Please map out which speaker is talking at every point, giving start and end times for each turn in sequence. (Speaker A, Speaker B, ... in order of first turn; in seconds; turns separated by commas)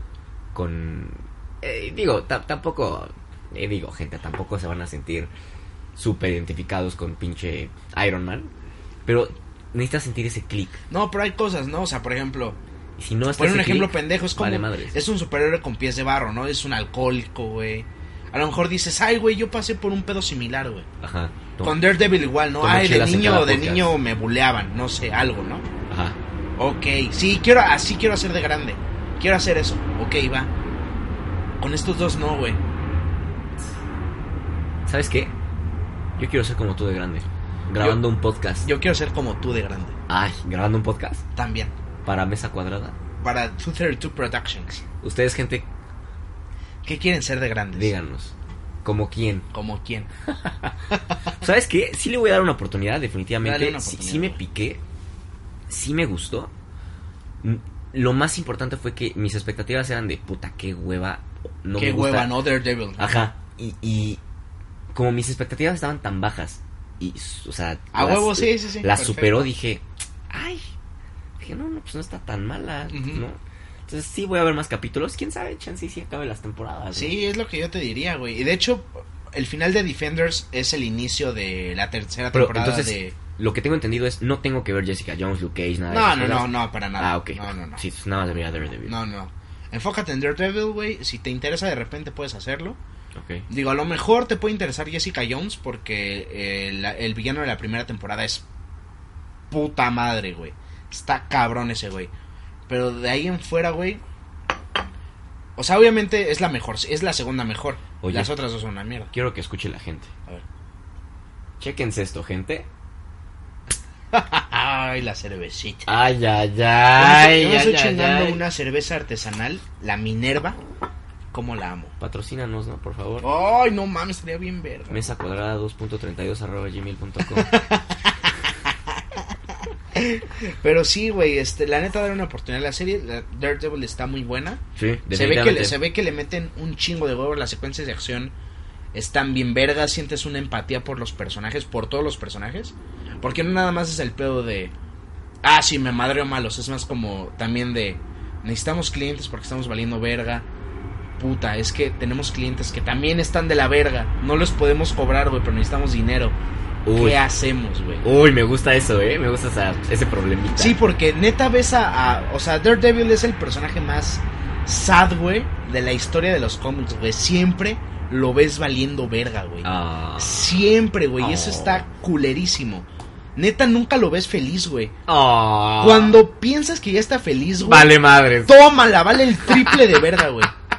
Speaker A: 0.5-5.3, Speaker A: 6.0-8.5, Speaker A: 9.1-10.8, Speaker B: 10.9-12.6, Speaker A: 13.0-15.0, Speaker B: 13.3-20.9, Speaker A: 21.0-21.9, Speaker B: 21.6-25.7, Speaker A: 22.6-23.9, Speaker A: 25.9-26.2, Speaker B: 26.6-30.5, Speaker B: 31.6-32.6, Speaker A: 34.9-35.3, Speaker A: 36.2-38.7, Speaker B: 38.6-40.0, Speaker A: 40.1-41.2, Speaker B: 41.4-41.7, Speaker A: 42.0-43.0, Speaker B: 43.2-44.8, Speaker A: 45.0-45.7, Speaker B: 46.8-47.9, Speaker A: 47.7-49.5, Speaker B: 49.5-50.1, Speaker A: 50.3-50.8, Speaker A: 51.4-54.8, Speaker B: 53.4-54.4, Speaker A: 55.7-56.5, Speaker A: 57.4-62.4, Speaker B: 61.8-63.2, Speaker A: 63.0-64.2, Speaker A: 64.9-70.7, Speaker B: 67.9-69.5, Speaker A: 71.4-77.2, Speaker B: 72.9-73.2, Speaker B: 76.9-83.2, Speaker A: 82.3-89.0, Speaker B: 85.9-87.8, Speaker B: 88.8-92.8, Speaker A: 93.2-93.5, Speaker B: 93.5-98.5, Speaker B: 99.5-102.1, Speaker B: 102.7-104.0, Speaker B: 105.6-109.1, Speaker A: 108.0-108.3, Speaker A: 109.1-110.1, Speaker A: 111.6-112.7, Speaker B: 114.1-116.0, Speaker A: 115.9-118.4, Speaker B: 117.0-120.6, Speaker B: 121.3-121.9, Speaker A: 122.0-123.3, Speaker B: 123.2-125.1, Speaker A: 124.9-127.6, Speaker B: 127.3-129.2, Speaker B: 129.9-138.3, Speaker A: 134.8-135.8, Speaker B: 138.9-144.7, Speaker B: 145.4-150.5, Speaker B: 151.2-156.4, Speaker A: 156.9-157.2, Speaker B: 156.9-158.0, Speaker A: 158.0-160.8, Speaker B: 160.6-174.9, Speaker A: 169.6-170.6, Speaker A: 171.2-171.9, Speaker A: 175.1-176.2, Speaker B: 175.8-180.5, Speaker A: 177.6-178.6